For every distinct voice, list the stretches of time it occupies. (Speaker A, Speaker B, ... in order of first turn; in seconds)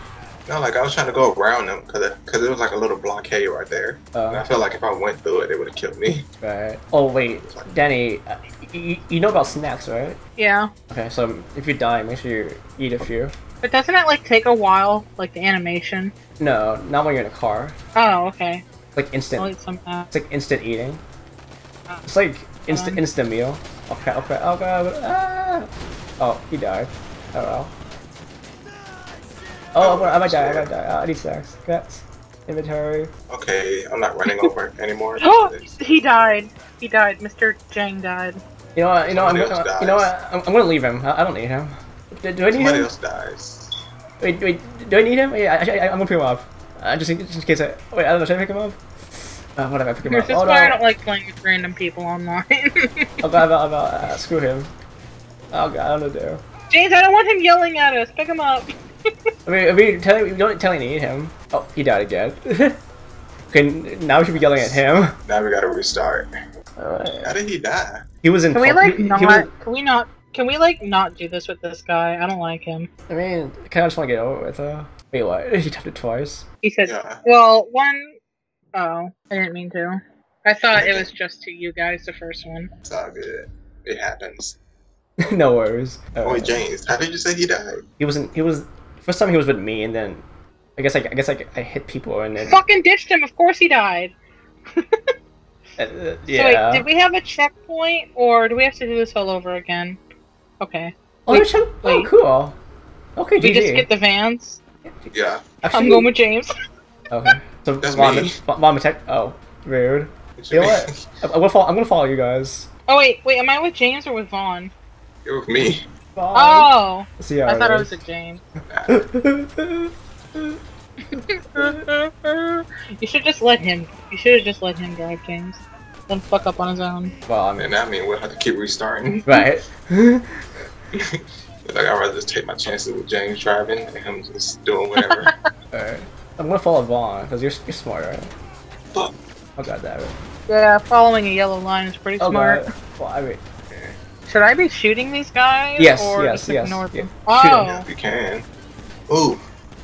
Speaker A: 0.5-6.3, 7.2-7.7, 29.8-30.7, 33.3-35.8, 39.0-40.1, 42.5-43.8, 64.3-66.3, 67.2-68.1, 76.8-77.2, 80.7-81.1, 82.8-84.6, 86.2-87.8, 105.1-105.5, 107.8-108.4, 110.4-111.0, 115.2-115.9, 118.7-119.0, 127.6-129.3, 130.9-135.3, 143.7-144.0, 147.6-148.5, 149.1-149.4
Speaker B: 4.1-4.5, 6.4-10.2, 10.9-13.3, 16.4-17.8, 18.9-19.5, 20.1-21.0, 22.1-27.7, 29.7-33.1, 38.8-42.9, 44.2-50.8, 53.2-54.7, 55.5-56.4, 59.5-62.8, 63.5-65.2, 66.8-67.4, 68.2-69.5, 73.1-76.5, 85.2-86.6, 88.0-90.2, 90.8-92.6, 95.8-96.9, 101.3-102.6, 103.2-103.9, 104.8-106.1, 107.1-112.7, 116.2-118.0, 118.9-120.6, 127.3-127.7, 129.3-130.5, 135.7-138.3, 139.6-140.2, 142.2-143.4, 145.8-147.7
Speaker C: 10.4-10.7, 13.6-16.1, 17.9-18.6, 19.4-20.1, 22.7-23.0, 35.2-38.4, 50.1-53.2, 56.7-59.1, 68.5-72.9, 76.6-78.1, 78.8-82.7, 92.4-94.1, 94.7-95.1, 96.3-100.0, 100.6-102.1, 103.4-104.6, 105.7-106.5, 112.9-114.7, 116.3-118.4, 121.2-127.1, 135.0-135.3, 140.5-142.6, 144.3-147.9